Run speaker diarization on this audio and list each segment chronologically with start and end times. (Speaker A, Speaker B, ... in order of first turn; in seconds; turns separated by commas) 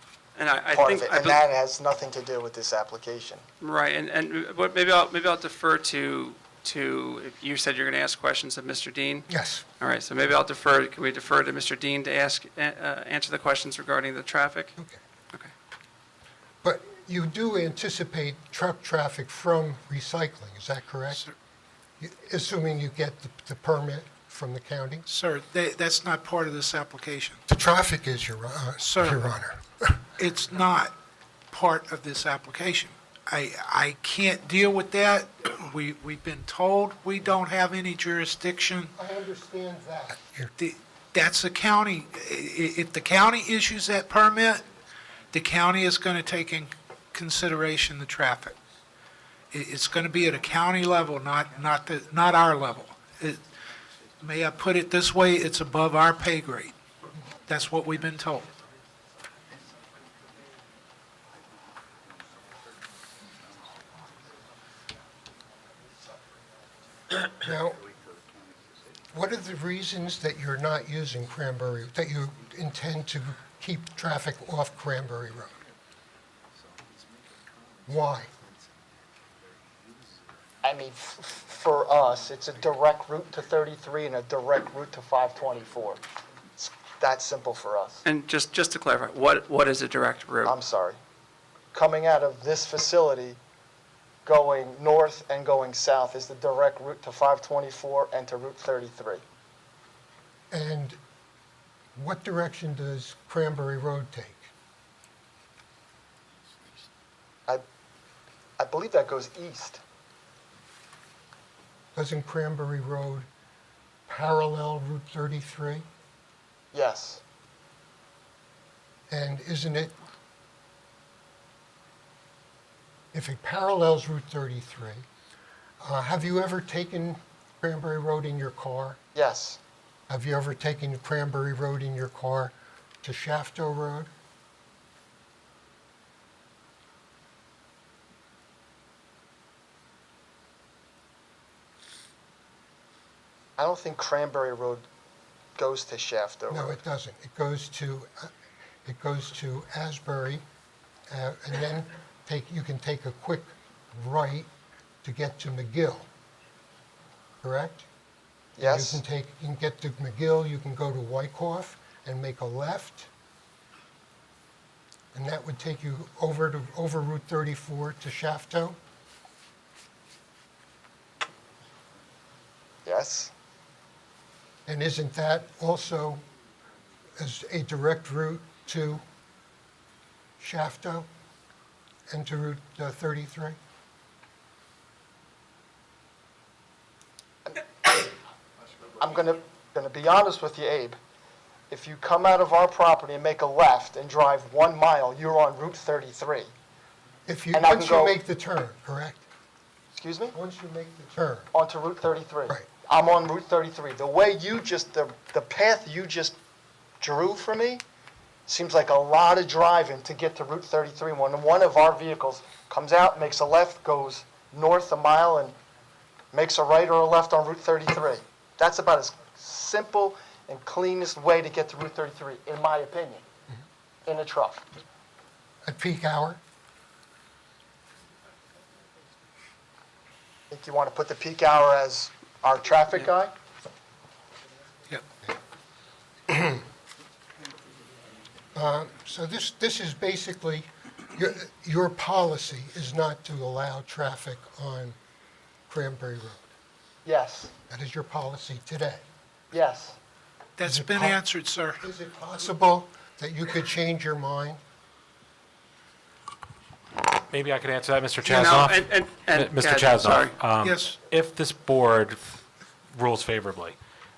Speaker A: 0.4-1.4, Speaker B: 0.7-3.4, Speaker A: 3.6-9.3, Speaker C: 9.3-9.6, Speaker A: 9.8-14.7, Speaker C: 16.6-21.2, Speaker C: 22.0-25.0, Speaker D: 25.1-27.4, Speaker C: 27.5-29.6, Speaker D: 28.8-29.2, Speaker D: 30.2-30.9, Speaker D: 31.5-38.9, Speaker C: 39.0-40.5, Speaker D: 40.6-44.6, Speaker D: 45.3-48.6, Speaker D: 49.5-53.4, Speaker D: 54.2-56.7, Speaker D: 57.5-58.5, Speaker C: 67.4-67.8, Speaker C: 69.1-75.5, Speaker C: 77.9-78.3, Speaker B: 80.6-86.0, Speaker B: 86.6-88.0, Speaker A: 88.0-90.6, Speaker B: 90.4-91.0, Speaker B: 91.7-93.4, Speaker B: 94.2-99.2, Speaker C: 100.5-101.0, Speaker C: 102.0-104.5, Speaker B: 108.6-109.8, Speaker C: 111.9-113.3, Speaker C: 114.1-115.8, Speaker B: 116.7-117.2, Speaker C: 119.1-120.0, Speaker C: 123.1-125.1, Speaker C: 125.8-129.0, Speaker B: 129.1-129.6, Speaker C: 130.1-134.1, Speaker B: 143.6-144.8, Speaker B: 145.6-146.8, Speaker C: 146.5-148.3, Speaker C: 148.8-150.4, Speaker C: 151.1-154.5, Speaker C: 155.0-156.1, Speaker C: 157.4-157.8, Speaker B: 158.6-159.0, Speaker C: 158.6-163.1, Speaker C: 165.1-168.8, Speaker B: 172.8-173.3, Speaker C: 174.7-176.2, Speaker C: 177.2-179.0, Speaker C: 180.4-181.1, Speaker C: 182.1-183.6, Speaker B: 187.4-188.1, Speaker B: 189.0-191.0, Speaker B: 191.7-196.5, Speaker C: 197.3-199.2, Speaker B: 197.5-198.2, Speaker B: 199.9-200.3, Speaker C: 200.3-201.5, Speaker B: 201.5-206.3, Speaker B: 207.0-207.8, Speaker B: 208.5-215.5, Speaker B: 216.3-223.2, Speaker B: 224.1-224.7, Speaker C: 225.6-226.4, Speaker B: 230.5-233.3, Speaker C: 236.3-236.6, Speaker C: 238.5-244.9, Speaker C: 245.7-246.5, Speaker B: 247.0-247.5, Speaker C: 247.7-249.0, Speaker B: 249.5-250.0, Speaker D: 250.6-251.9, Speaker C: 250.6-251.2, Speaker C: 251.8-254.6, Speaker E: 257.3-262.2, Speaker A: 258.2-260.3, Speaker D: 260.6-261.0, Speaker E: 262.9-263.8